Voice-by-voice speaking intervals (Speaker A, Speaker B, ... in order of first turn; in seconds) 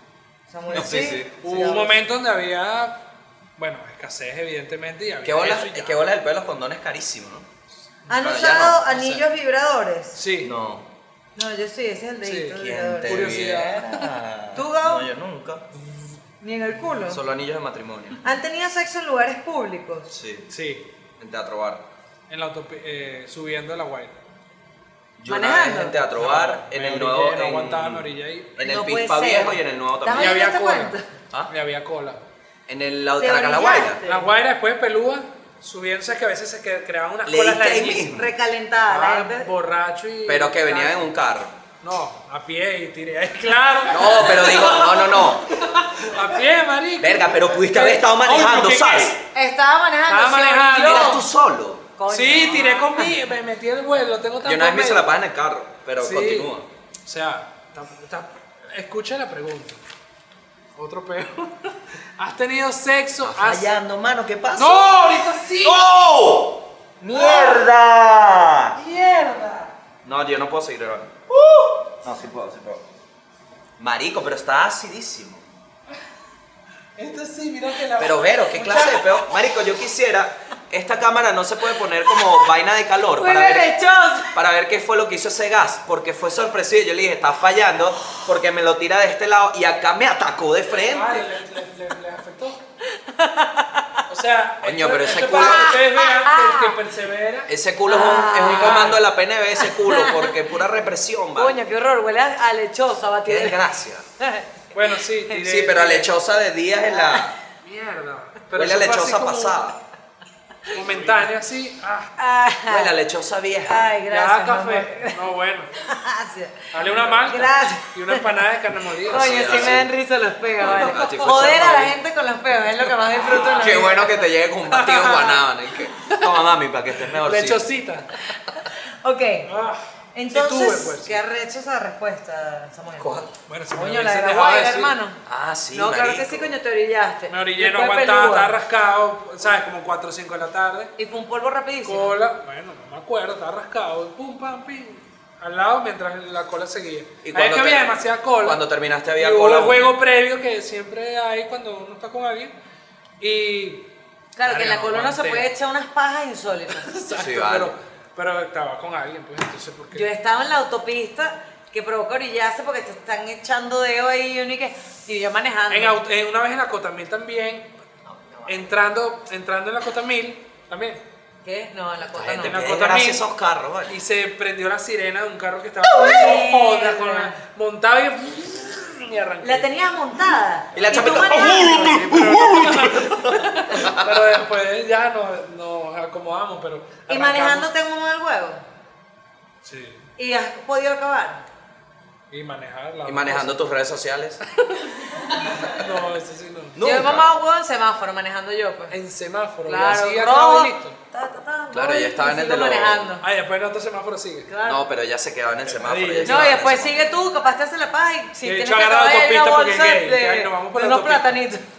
Speaker A: 0.5-2.0, 8.1-10.2, 11.4-13.4, 14.6-15.1, 16.4-17.2, 18.2-20.1, 25.3-26.0, 28.6-31.0, 33.2-34.3, 38.1-39.5, 49.3-51.2, 52.0-53.1, 83.2-84.3, 92.8-94.0, 95.3-96.8, 97.9-99.0, 99.6-100.3, 101.4-103.6, 104.2-104.6, 106.9-107.3, 112.2-112.9, 113.7-115.2, 115.8-118.2, 119.1-124.3, 128.2-129.5, 130.1-135.2, 135.7-138.5, 141.0-142.1, 154.4-156.9, 159.9-166.0, 168.1-168.7, 171.4-172.6, 175.9-177.4, 179.4-182.0, 187.1-188.6, 190.2-191.4, 196.8-198.9, 199.7-203.2, 204.5-204.8, 206.2-211.6
Speaker B: 0.7-1.4, 5.2-7.5, 8.1-8.8, 10.4-10.9, 12.6-15.6, 17.0-18.2, 20.1-20.5, 21.2-21.8, 25.2-30.4, 32.7-34.0, 37.3-38.3, 40.3-41.5, 43.9-45.6, 47.0-49.2, 50.8-51.9, 54.4-56.7, 63.2-68.8, 70.0-72.8, 73.8-75.5, 78.0-83.7, 84.3-91.2, 94.6-95.7, 97.5-101.6, 103.2-104.1, 105.4-107.3, 108.5-109.8, 112.7-113.9, 116.8-117.1, 119.1-119.9, 120.6-122.0, 123.5-127.6, 133.0-133.3, 135.3-136.6, 147.2-149.9, 157.1-157.7, 172.1-174.0, 180.7-184.2, 193.1-194.4, 196.8-197.3, 201.7-203.1, 204.6-207.0
Speaker C: 0.7-3.0, 3.6-6.0, 8.9-9.2, 10.1-10.5, 12.2-14.1, 15.7-16.2, 20.5-20.8, 22.3-24.1, 26.2-28.5, 30.2-30.9, 31.5-32.2, 34.1-38.2, 38.9-41.1, 41.8-49.2, 50.1-51.2, 52.1-55.1, 56.0-56.5, 57.0-59.8, 60.8-63.7, 64.5-65.9, 67.2-67.6, 68.8-69.7, 77.0-79.1, 90.7-92.6, 94.1-97.5, 98.4-99.0, 104.7-106.1, 107.6-109.6, 110.7-112.1, 114.1-115.7, 116.7-119.7, 124.7-125.4, 126.0-126.4, 127.1-128.1, 129.4-131.2, 133.5-134.9, 137.3-140.9, 141.8-148.6, 149.2-152.5, 153.2-153.8, 154.4-155.5, 156.8-160.1, 165.7-167.7, 168.5-171.0, 172.4-173.2, 173.9-179.7, 181.2-187.7, 189.6-190.0, 192.3-193.6, 194.5-196.8, 198.9-201.0, 203.2-204.5, 205.7-206.6, 208.4-211.4